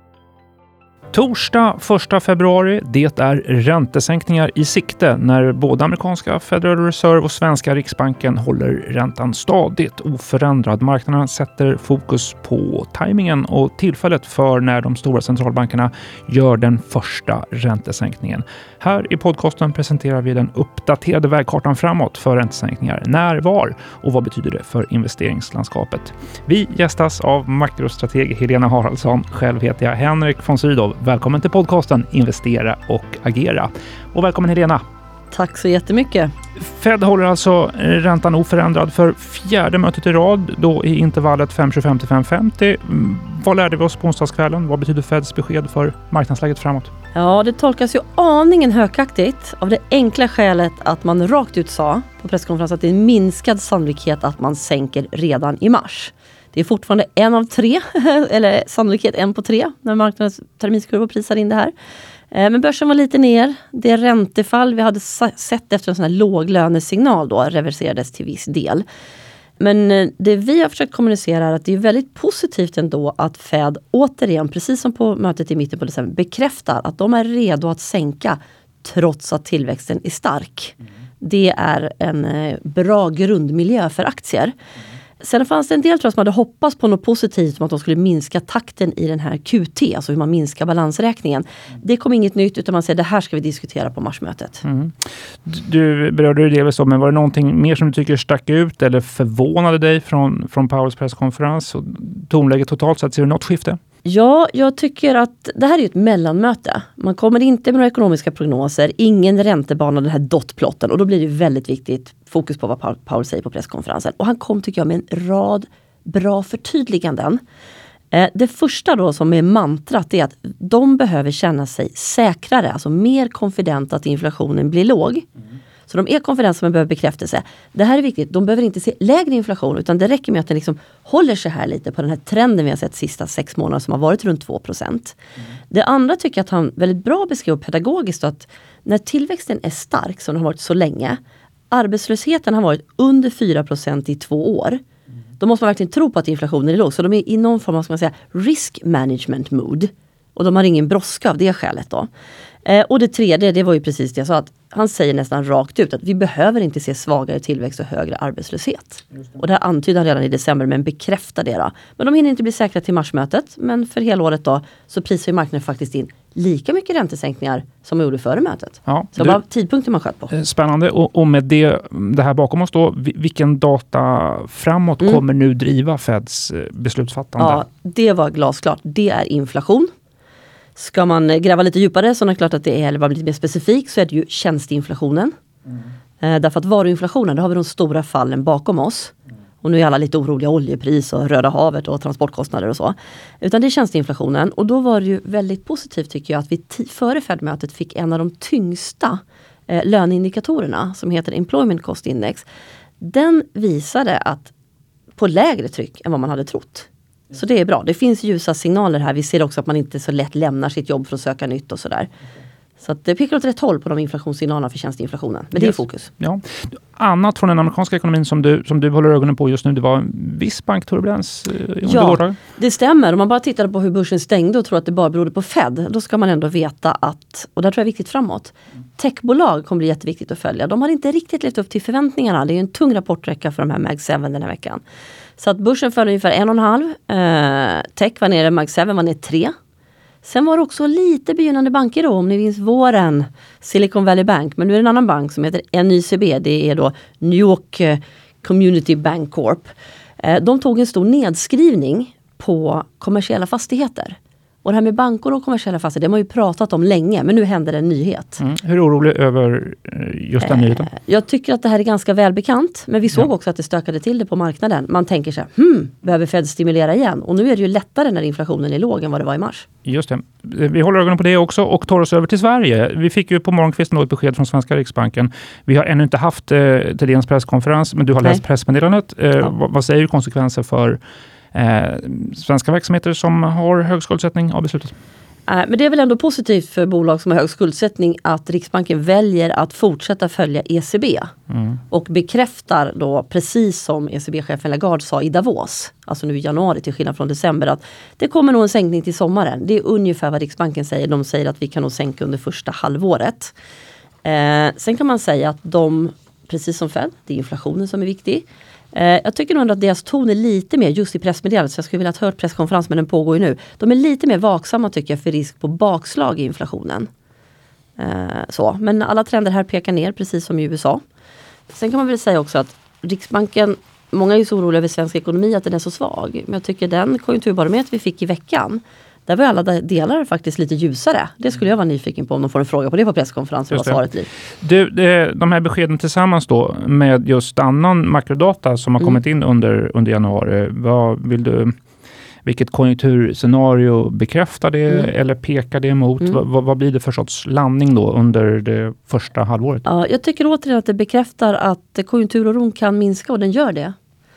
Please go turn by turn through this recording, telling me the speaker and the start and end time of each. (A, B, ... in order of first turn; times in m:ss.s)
0:01.1-0:34.8 A
0:35.3-0:36.3 B
0:36.6-0:46.9 A
0:47.1-1:01.7 B
1:02.3-1:08.8 B
1:09.6-1:24.6 B
1:25.2-1:34.6 B
1:34.6-1:43.8 A
1:44.0-1:57.4 B
1:58.1-2:05.3 B
2:05.9-2:15.2 B
2:15.7-2:21.2 B
2:21.7-2:24.8 B
2:25.4-2:32.1 B
2:32.6-2:50.3 B
2:48.9-2:49.4 A
2:50.3-2:57.6 A
2:57.4-2:59.9 B
3:00.8-3:05.3 B
3:06.2-3:22.5 B
3:23.0-3:24.5 B
3:25.2-3:32.1 B
3:32.8-3:36.1 B
3:35.6-3:42.4 A
3:41.8-3:54.8 B
3:55.4-3:59.5 B
4:00.2-4:18.4 B
4:18.4-4:20.9 A
4:20.4-4:29.7 B
4:29.9-4:41.0 A
4:41.5-4:44.9 A
4:45.5-4:51.3 B
4:51.5-4:51.8 A
4:51.9-5:03.5 B
5:04.2-5:17.1 B
5:18.0-5:21.0 B
5:21.7-5:34.3 B
5:33.7-5:34.0 A
5:34.6-5:41.7 A
5:42.4-5:49.9 A
5:49.9-5:54.0 B